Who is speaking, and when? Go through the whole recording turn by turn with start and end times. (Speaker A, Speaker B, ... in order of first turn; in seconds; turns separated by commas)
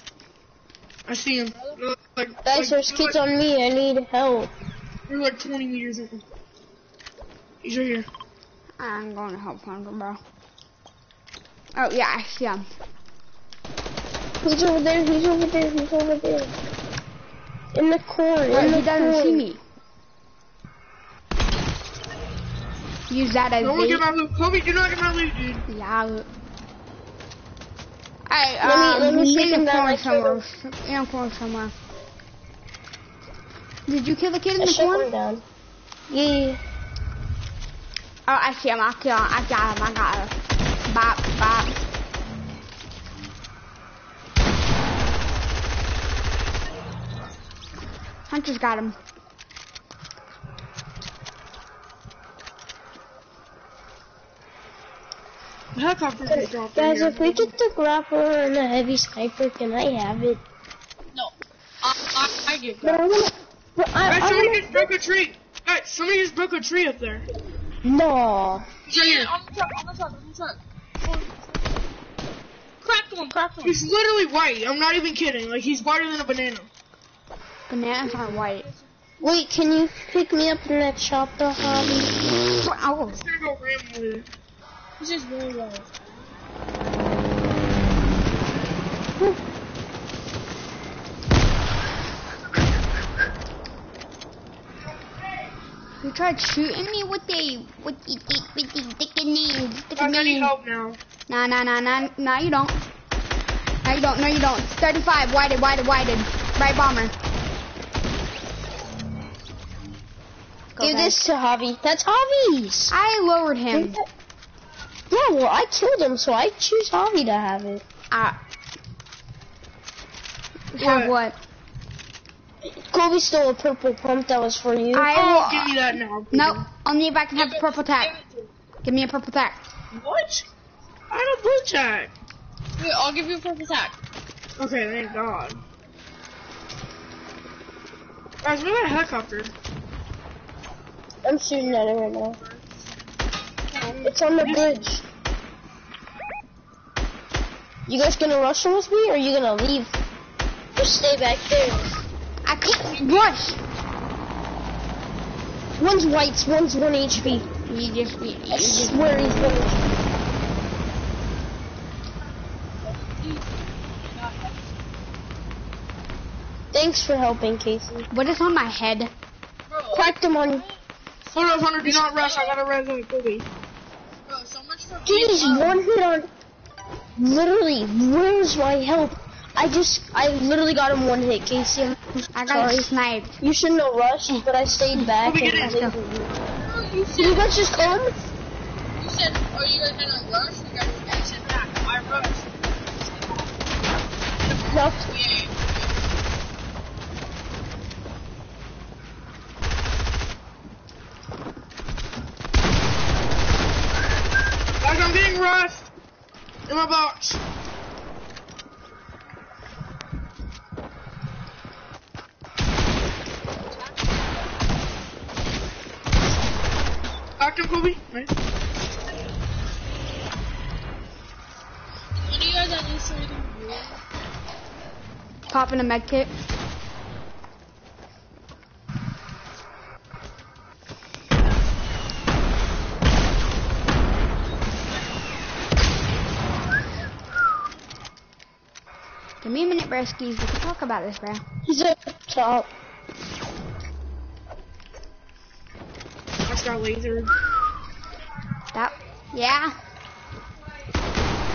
Speaker A: 1.1-3.2, Speaker B: 1.5-1.8, Speaker C: 2.4-4.5, Speaker A: 5.1-6.2, Speaker A: 7.6-8.1, Speaker D: 8.8-10.2, Speaker D: 11.8-12.6, Speaker C: 14.4-16.5, Speaker C: 17.7-19.5, Speaker D: 18.5-19.6, Speaker D: 23.1-24.0, Speaker A: 23.6-25.6, Speaker D: 25.7-26.3, Speaker D: 28.3-31.7, Speaker C: 28.6-30.4, Speaker D: 33.9-35.1, Speaker C: 34.5-35.4, Speaker C: 36.1-36.6, Speaker D: 38.3-40.3, Speaker D: 40.9-41.8, Speaker D: 48.3-49.0, Speaker A: 55.7-57.5, Speaker C: 56.2-60.4, Speaker B: 61.1-63.0, Speaker C: 62.8-64.9, Speaker A: 64.0-67.2, Speaker C: 67.8-68.7, Speaker B: 68.9-71.3, Speaker A: 68.9-69.3, Speaker B: 72.8-73.8, Speaker A: 73.6-76.7, Speaker D: 77.7-78.6, Speaker C: 79.2-82.3, Speaker D: 82.6-83.2, Speaker A: 83.1-84.3, Speaker B: 85.0-86.2, Speaker D: 96.0-100.5, Speaker A: 100.0-101.0, Speaker D: 101.3-102.8, Speaker D: 103.8-107.1, Speaker D: 110.7-111.2, Speaker C: 110.8-112.9, Speaker D: 112.9-114.0, Speaker C: 113.7-114.1, Speaker C: 115.1-117.8, Speaker D: 118.1-118.4, Speaker D: 120.7-121.4, Speaker A: 120.8-121.2, Speaker C: 122.6-125.1, Speaker D: 124.9-125.8, Speaker A: 125.1-126.6, Speaker D: 126.3-128.1, Speaker B: 127.3-128.5, Speaker D: 128.8-129.6, Speaker A: 129.9-130.4, Speaker A: 131.1-132.1, Speaker B: 132.8-133.9, Speaker A: 134.6-135.6, Speaker A: 138.4-139.5, Speaker C: 141.2-142.4, Speaker A: 143.7-144.8, Speaker C: 144.0-145.0, Speaker C: 147.9-149.9, Speaker C: 150.8-151.9, Speaker D: 152.4-153.6, Speaker C: 155.8-157.5, Speaker D: 157.7-159.1, Speaker C: 158.5-159.9, Speaker B: 162.8-164.7, Speaker C: 166.7-168.1, Speaker D: 168.1-169.1, Speaker B: 169.7-170.8, Speaker C: 169.9-170.6, Speaker A: 171.3-173.5, Speaker B: 171.4-172.6, Speaker B: 174.3-175.8, Speaker C: 175.0-176.3, Speaker C: 177.2-182.9, Speaker D: 182.3-183.4, Speaker C: 183.4-186.3, Speaker D: 184.3-185.9, Speaker A: 185.2-185.8, Speaker B: 186.5-187.9, Speaker C: 187.1-188.2, Speaker B: 189.0-192.5, Speaker C: 194.6-195.1, Speaker B: 195.1-195.9, Speaker A: 204.8-205.8, Speaker A: 206.7-207.4, Speaker A: 217.4-218.3, Speaker B: 222.2-224.0, Speaker D: 225.5-226.3, Speaker D: 239.4-241.4, Speaker C: 241.6-242.7, Speaker A: 246.4-247.3, Speaker D: 248.7-249.8